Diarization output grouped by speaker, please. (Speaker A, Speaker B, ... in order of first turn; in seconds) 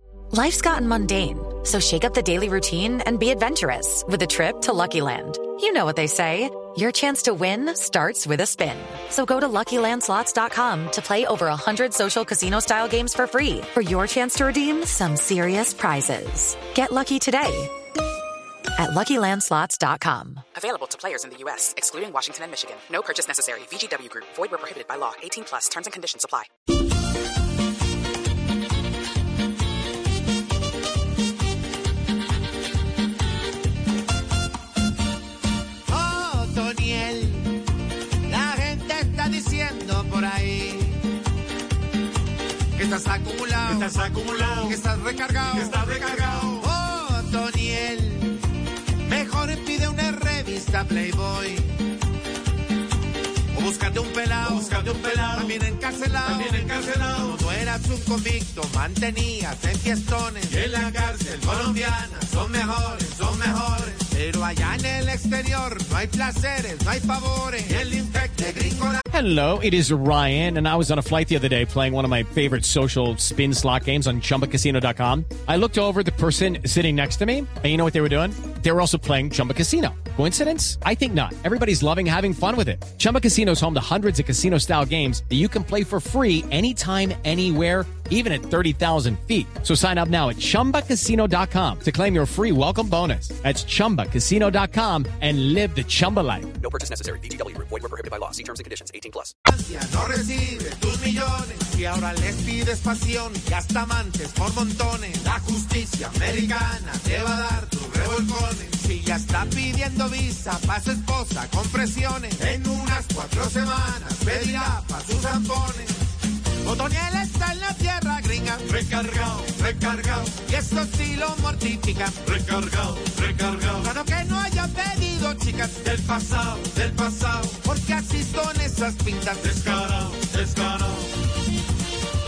Speaker A: 0.3-17.7, 18.8-20.4
Speaker B: 20.5-26.5
Speaker C: 35.9-37.5, 38.3-40.9, 42.8-43.8, 44.6-45.6, 46.6-48.3, 49.1-51.7, 53.5-54.6, 55.3-60.6, 61.4-69.0, 99.5-116.0, 116.7-118.7, 120.5-122.2, 123.8-129.4
Speaker D: 43.6-43.9, 44.5-45.8, 54.4-55.6, 56.2-57.4, 60.7-61.2, 129.4-130.0
Speaker E: 69.1-96.5
Speaker F: 96.6-99.3